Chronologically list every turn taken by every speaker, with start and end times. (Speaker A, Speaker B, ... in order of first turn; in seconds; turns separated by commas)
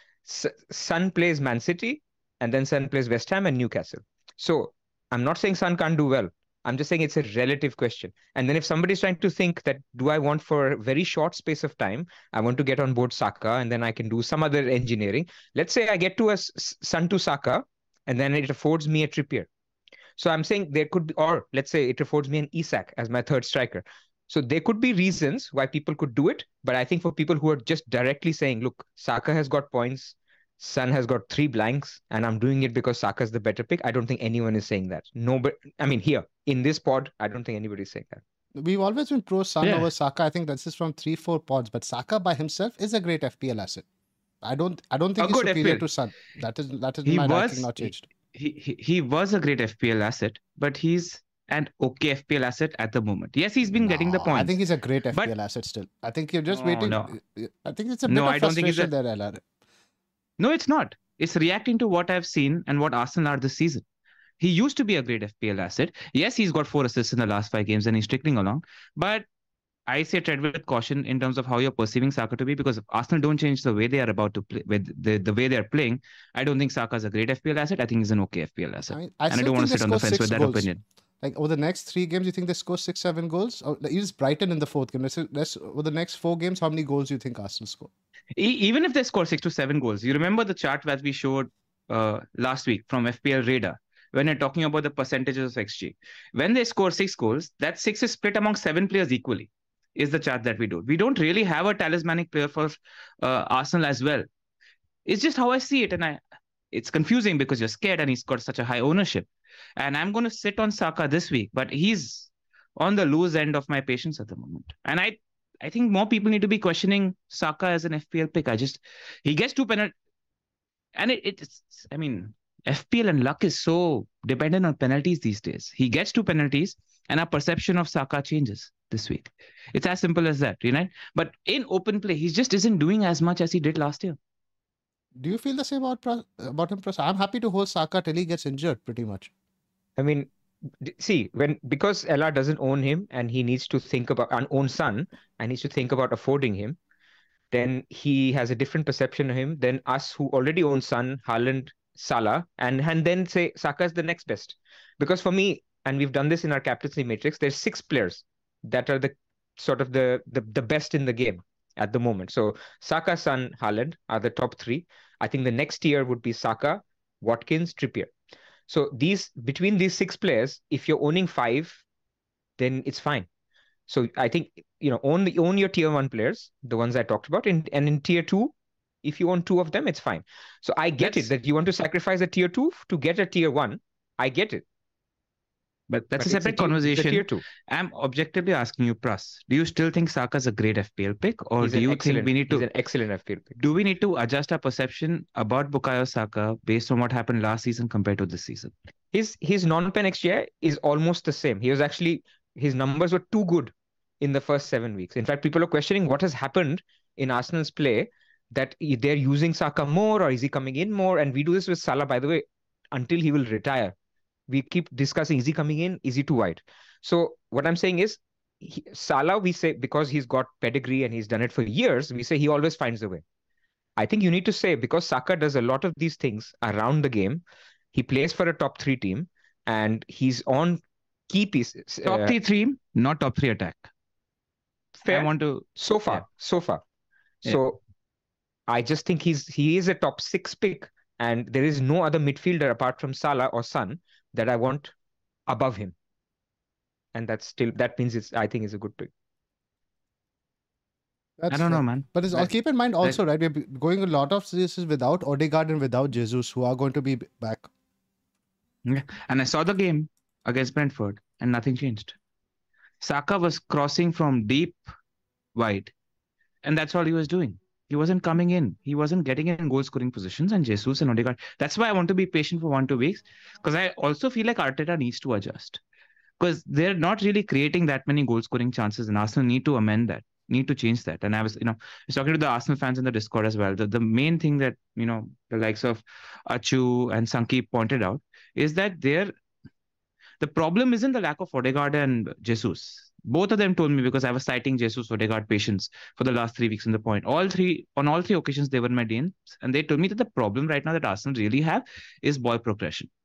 Speaker A: 0.2-19.5, Speaker A: 20.2-38.2, Speaker B: 38.5-43.8, Speaker C: 39.6-39.9, Speaker B: 44.4-48.0, Speaker C: 45.2-45.9, Speaker C: 47.0-54.6, Speaker B: 53.7-59.4, Speaker C: 56.5-57.1, Speaker C: 58.1-58.9, Speaker C: 60.4-63.8, Speaker C: 64.4-69.2, Speaker C: 69.9-80.8, Speaker B: 78.9-80.7, Speaker B: 81.2-87.9, Speaker C: 88.3-104.2, Speaker C: 105.0-106.2, Speaker C: 106.7-119.9, Speaker C: 121.0-134.2, Speaker B: 135.1-139.3, Speaker A: 140.0-140.3, Speaker A: 140.8-146.8, Speaker A: 147.5-168.1, Speaker A: 168.7-171.8, Speaker A: 172.6-173.3, Speaker A: 173.9-184.6, Speaker C: 181.0-181.3, Speaker C: 185.9-192.7, Speaker A: 186.2-187.4, Speaker A: 191.6-193.6, Speaker C: 193.6-198.7, Speaker A: 199.1-213.9, Speaker A: 214.5-223.2, Speaker A: 224.0-227.4, Speaker A: 227.9-232.3, Speaker C: 232.0-233.9, Speaker C: 235.0-236.2, Speaker A: 235.1-236.8, Speaker A: 237.4-237.8, Speaker A: 238.7-244.9, Speaker A: 245.5-245.9, Speaker A: 247.1-249.1, Speaker B: 251.4-257.7, Speaker C: 251.5-252.5, Speaker C: 258.9-262.1, Speaker C: 263.0-264.8, Speaker C: 265.5-265.9, Speaker C: 266.6-275.8, Speaker C: 276.4-289.3, Speaker C: 290.4-303.1